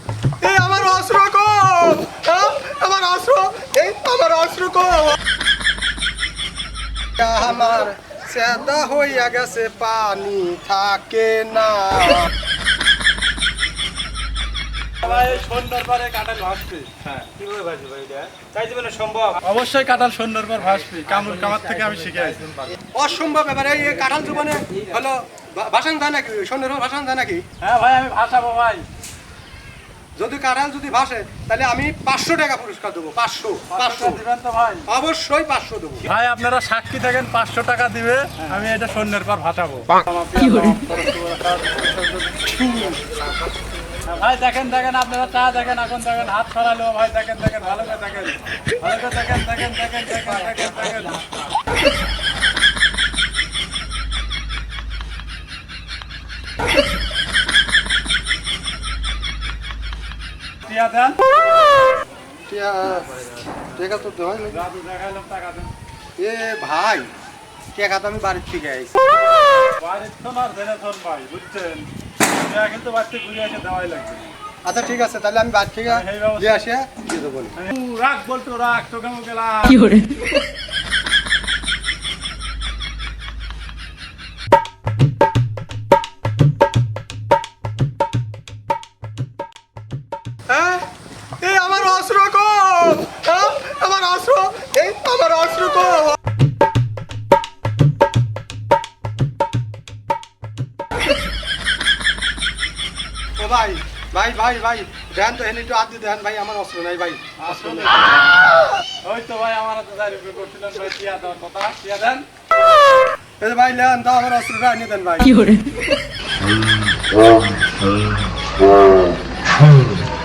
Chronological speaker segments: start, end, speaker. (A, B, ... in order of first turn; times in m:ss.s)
0:00.4-0:05.2 A
0:07.2-0:12.3 A
0:15.0-0:17.3 B
0:17.3-0:19.4 C
0:19.4-0:22.7 B
0:22.9-0:27.4 A
0:27.6-0:28.8 B
0:30.2-0:34.2 A
0:33.7-0:34.9 B
0:34.8-0:36.1 A
0:36.0-0:43.0 B
0:44.0-0:51.2 B
1:00.6-1:01.2 B
1:02.5-1:03.1 A
1:03.7-1:04.6 A
1:04.5-1:05.7 B
1:06.2-1:07.1 A
1:07.7-1:09.0 A
1:09.8-1:14.4 B
1:14.6-1:17.6 A
1:15.9-1:16.6 B
1:17.6-1:20.1 B
1:30.5-1:30.8 A
1:31.4-1:36.2 A
1:43.4-1:47.8 A
1:47.4-1:48.2 B
1:49.0-1:52.3 B
1:53.4-1:55.6 A